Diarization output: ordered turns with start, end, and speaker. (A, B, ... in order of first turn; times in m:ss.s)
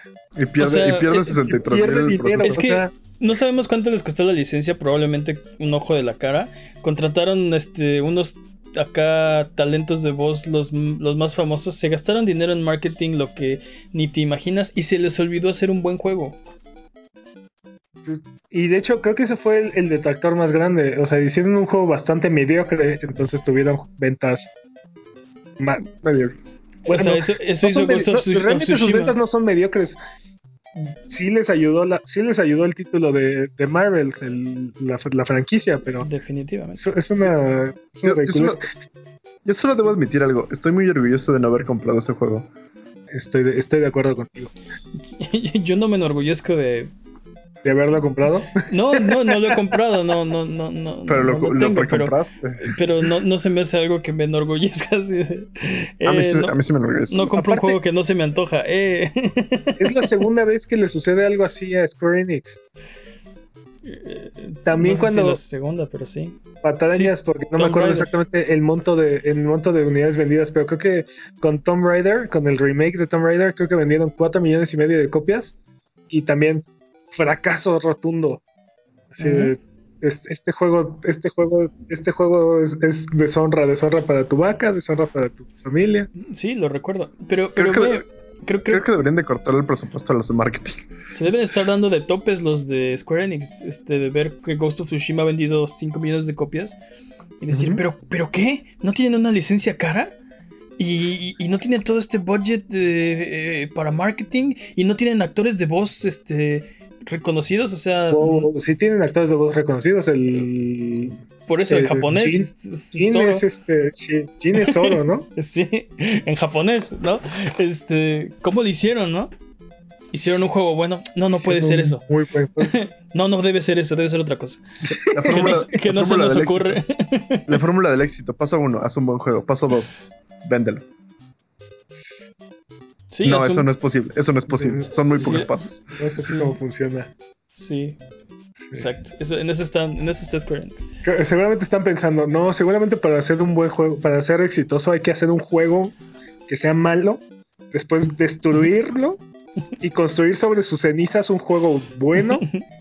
0:00.4-0:02.6 A
0:00.6-0:01.6 B
0:01.7-0:02.9 C
0:02.3-0:16.4 B
0:18.0-0:24.5 C
0:25.6-0:25.8 C
0:26.0-0:26.6 A
0:26.8-0:29.1 B
0:26.9-0:30.0 C
0:31.1-0:36.1 C
0:36.0-0:36.8 B
0:36.8-0:38.6 C
0:38.0-0:38.6 A
0:39.4-0:42.5 A
0:43.1-0:44.5 C
0:45.2-0:46.9 B
0:47.6-0:49.6 C
0:48.7-0:56.5 B
0:51.1-0:52.7 A
0:56.0-0:57.3 A
0:57.1-1:00.1 B
0:57.3-0:57.8 C
0:59.8-1:02.6 C
1:03.8-1:06.4 B
1:04.7-1:05.4 C
1:06.6-1:15.5 C
1:06.9-1:08.1 B
1:16.1-1:18.4 C
1:19.1-1:26.1 C
1:19.2-1:19.5 B
1:26.2-1:28.8 B
1:27.6-1:28.0 A
1:28.7-1:30.8 A
1:31.1-1:36.8 B
1:37.4-1:40.1 B
1:37.5-1:37.8 A
1:40.8-1:48.5 B
1:48.1-1:51.2 C
1:51.5-1:53.4 B
1:51.7-1:55.3 C
1:54.5-1:59.3 B
2:00.1-2:02.0 B
2:01.4-2:02.7 C
2:02.6-2:07.6 B
2:05.0-2:05.4 C
2:05.0-2:06.8 A
2:07.5-2:10.8 A
2:13.1-2:13.7 B
2:13.2-2:15.9 A
2:14.5-2:15.4 C
2:15.1-2:15.5 B
2:16.0-2:17.1 C
2:16.2-2:16.6 B
2:17.6-2:18.0 B
2:18.7-2:20.8 B
2:21.0-2:26.0 C
2:26.5-2:29.2 C
2:29.8-2:32.4 C
2:32.4-2:32.6 B